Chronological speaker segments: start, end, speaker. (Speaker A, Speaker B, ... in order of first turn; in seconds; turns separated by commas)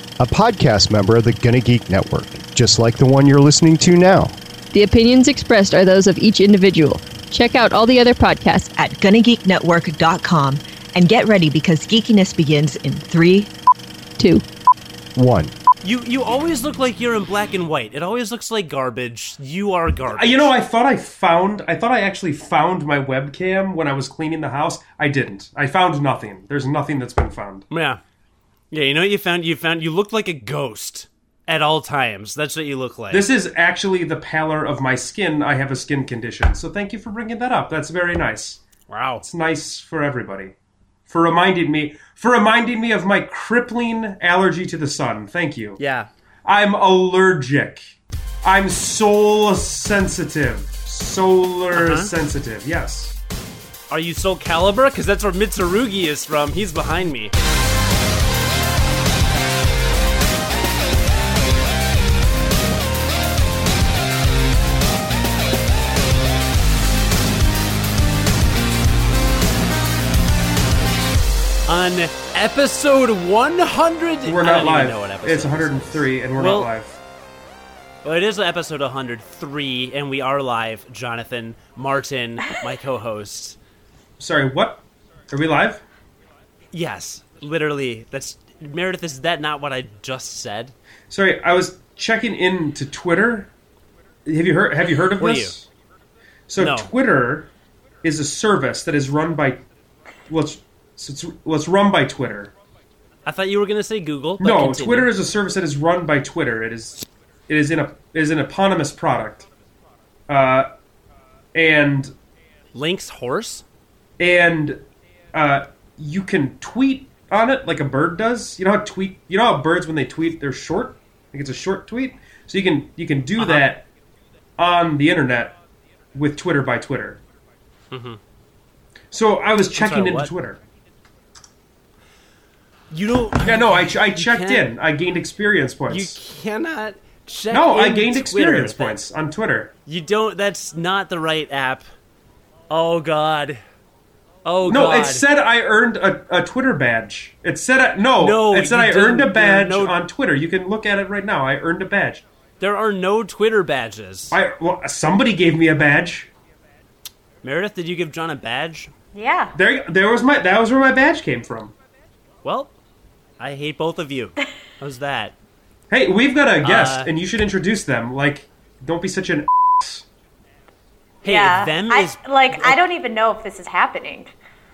Speaker A: 0.2-4.4, Speaker B: 4.7-8.7, Speaker C: 8.7-13.5, Speaker A: 15.1-15.5, Speaker D: 15.8-20.5, Speaker E: 20.1-27.7, Speaker D: 27.7-28.0, Speaker D: 28.7-33.3, Speaker E: 33.1-38.6, Speaker D: 38.9-39.2, Speaker E: 39.2-40.5, Speaker E: 41.1-45.8, Speaker D: 45.8-46.1, Speaker E: 46.4-53.2, Speaker D: 51.7-52.1, Speaker D: 53.9-57.3, Speaker D: 71.7-76.7, Speaker E: 74.2-77.0, Speaker D: 78.0-83.6, Speaker E: 84.2-85.8, Speaker D: 86.7-90.7, Speaker E: 91.1-93.5, Speaker E: 94.2-95.7, Speaker D: 95.2-95.5, Speaker E: 96.5-97.5, Speaker D: 96.6-96.9, Speaker E: 98.0-99.6, Speaker E: 100.3-102.5, Speaker D: 103.2-105.1, Speaker E: 104.4-109.5, Speaker E: 110.3-110.7, Speaker E: 111.5-112.1, Speaker D: 112.7-113.6, Speaker E: 114.2-123.9, Speaker D: 123.4-123.6, Speaker E: 124.6-125.5, Speaker E: 126.1-127.2, Speaker D: 127.9-128.2, Speaker E: 129.1-130.6, Speaker D: 129.8-130.3, Speaker D: 132.9-134.7, Speaker E: 133.4-136.2, Speaker D: 135.9-139.0, Speaker E: 137.5-139.7, Speaker D: 139.8-141.8, Speaker D: 142.7-143.6, Speaker D: 144.4-145.2, Speaker E: 144.6-152.2, Speaker D: 148.2-150.0, Speaker D: 152.6-154.3, Speaker E: 154.3-156.3, Speaker D: 157.4-158.9, Speaker F: 159.1-159.5, Speaker E: 159.5-161.7, Speaker D: 162.4-162.7, Speaker D: 163.4-165.3, Speaker E: 165.9-170.1, Speaker D: 166.6-167.1, Speaker D: 171.2-172.8, Speaker F: 171.2-174.3